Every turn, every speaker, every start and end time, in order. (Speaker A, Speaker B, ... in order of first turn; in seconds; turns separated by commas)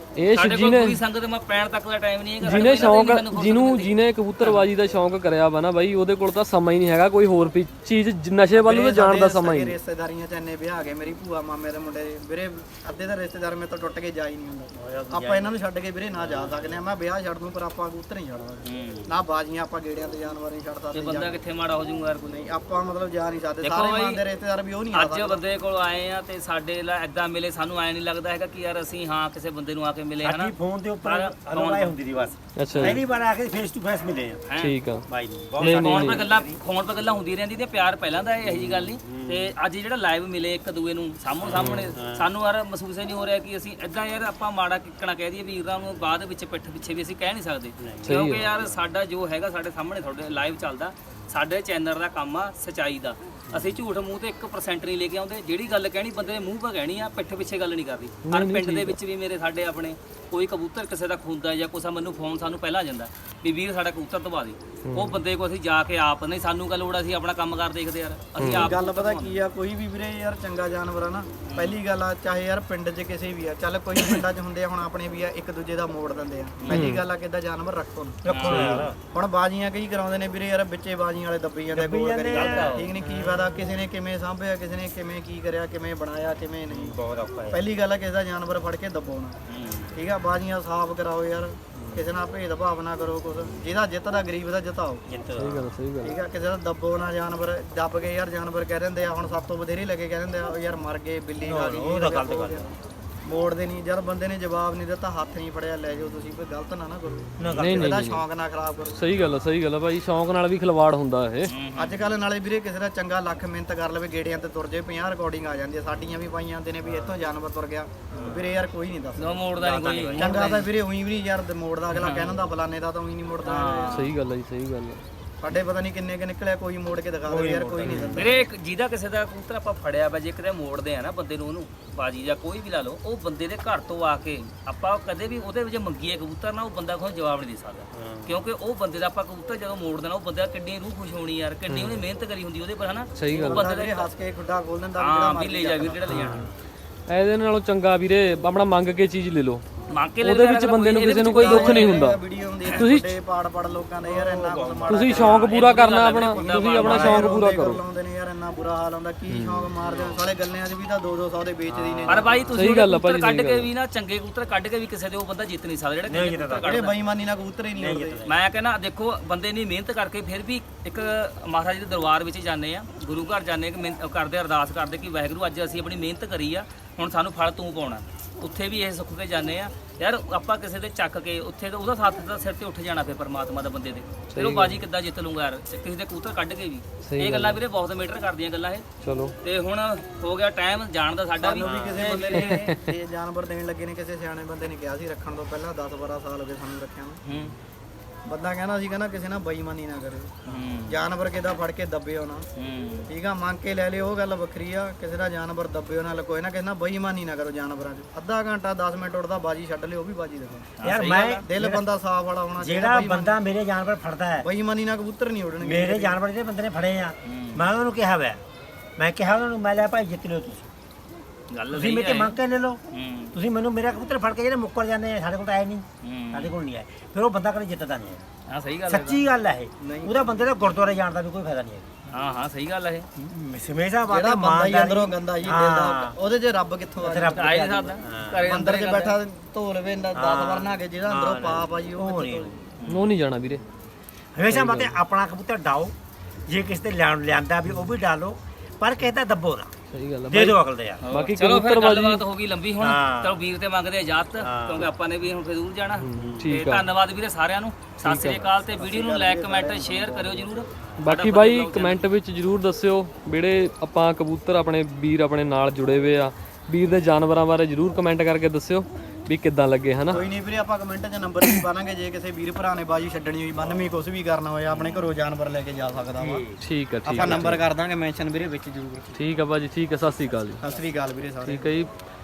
Speaker A: 0.2-1.0, Speaker B: 0.3-4.6, Speaker A: 2.4-9.8, Speaker C: 8.6-21.4, Speaker D: 14.7-15.5, Speaker D: 16.2-16.8, Speaker B: 18.6-19.1, Speaker B: 20.9-22.4, Speaker C: 22.3-25.4, Speaker B: 23.6-24.2, Speaker B: 24.9-32.0, Speaker D: 30.2-34.5, Speaker A: 32.6-33.0, Speaker B: 34.5-34.8, Speaker A: 34.6-35.1, Speaker D: 35.1-36.6, Speaker A: 35.6-36.3, Speaker B: 35.6-69.4, Speaker D: 38.4-39.5, Speaker D: 41.4-42.3, Speaker A: 41.5-42.0, Speaker D: 47.8-48.8, Speaker A: 48.0-48.5, Speaker D: 53.5-53.8, Speaker A: 58.2-59.0, Speaker A: 64.8-65.2, Speaker A: 68.4-68.7, Speaker C: 68.4-87.0, Speaker B: 71.5-71.8, Speaker B: 76.6-76.9, Speaker A: 76.7-77.0, Speaker D: 78.2-79.0, Speaker B: 78.3-78.9, Speaker A: 78.5-78.8, Speaker D: 81.8-82.9, Speaker B: 82.3-82.9, Speaker D: 86.7-87.7, Speaker C: 87.5-89.4, Speaker B: 89.5-90.0, Speaker C: 89.9-95.0, Speaker D: 91.8-92.0, Speaker D: 95.1-95.8, Speaker A: 95.4-96.2, Speaker C: 96.0-102.7, Speaker D: 101.5-102.7, Speaker C: 103.3-109.4, Speaker D: 107.4-108.0, Speaker A: 107.5-108.2, Speaker A: 108.9-111.5, Speaker B: 111.5-112.1, Speaker C: 111.8-119.4, Speaker B: 118.1-118.5, Speaker B: 119.2-120.7, Speaker D: 119.6-120.6, Speaker C: 120.1-124.0, Speaker B: 121.9-122.5, Speaker B: 123.4-124.1, Speaker A: 123.9-125.0, Speaker C: 125.4-128.4, Speaker D: 127.3-128.3, Speaker A: 127.8-128.2, Speaker B: 128.1-144.1, Speaker D: 137.9-138.4, Speaker A: 141.7-142.0, Speaker A: 143.2-143.6, Speaker C: 143.3-146.4, Speaker B: 145.0-146.5, Speaker D: 146.1-146.6, Speaker A: 147.1-149.7, Speaker B: 149.9-152.0, Speaker A: 150.2-152.2, Speaker C: 151.2-162.5, Speaker A: 152.7-153.2, Speaker D: 154.0-155.3, Speaker A: 154.9-157.8, Speaker B: 155.1-157.3, Speaker D: 156.8-157.3, Speaker A: 159.3-159.7, Speaker B: 159.8-160.2, Speaker D: 161.7-162.5, Speaker B: 162.1-167.0, Speaker A: 162.6-163.7, Speaker D: 166.1-166.8, Speaker C: 166.6-168.2, Speaker D: 167.8-168.4, Speaker B: 168.3-188.9, Speaker A: 184.3-184.8, Speaker A: 187.0-187.6, Speaker A: 189.0-189.3, Speaker B: 189.4-192.6, Speaker C: 191.4-197.2, Speaker D: 191.6-192.3, Speaker A: 192.4-192.9, Speaker B: 197.3-197.5, Speaker C: 198.3-202.5, Speaker B: 200.5-201.0, Speaker B: 202.6-203.1, Speaker C: 203.1-210.7, Speaker B: 210.8-211.4, Speaker D: 210.8-211.8, Speaker C: 211.4-213.4, Speaker D: 212.6-214.5, Speaker C: 214.4-216.2, Speaker D: 215.6-218.4, Speaker B: 217.2-217.7, Speaker D: 219.0-220.7, Speaker B: 221.5-222.4, Speaker D: 221.7-222.8, Speaker B: 222.9-223.3, Speaker D: 223.3-228.2, Speaker B: 226.0-226.6, Speaker B: 228.5-229.2, Speaker D: 228.9-231.9, Speaker C: 229.8-230.5, Speaker B: 232.1-233.1, Speaker D: 233.2-236.2, Speaker C: 234.1-237.6, Speaker D: 237.0-238.4, Speaker B: 237.3-239.2, Speaker C: 238.4-242.6, Speaker D: 240.2-242.6, Speaker A: 242.9-243.6, Speaker D: 244.3-246.0, Speaker A: 244.5-245.0, Speaker D: 246.5-249.7, Speaker A: 249.9-252.2, Speaker D: 250.3-251.0, Speaker B: 251.0-262.0, Speaker D: 252.8-253.4, Speaker D: 254.4-254.9, Speaker A: 255.9-256.9, Speaker D: 256.2-256.5, Speaker A: 258.0-258.4, Speaker C: 258.8-260.6, Speaker A: 261.0-270.2, Speaker C: 270.1-276.4, Speaker D: 276.2-276.6, Speaker A: 276.6-277.6, Speaker C: 277.1-279.2, Speaker D: 277.2-277.6, Speaker A: 279.1-280.6, Speaker D: 280.6-280.9, Speaker C: 280.6-281.7, Speaker A: 281.4-281.9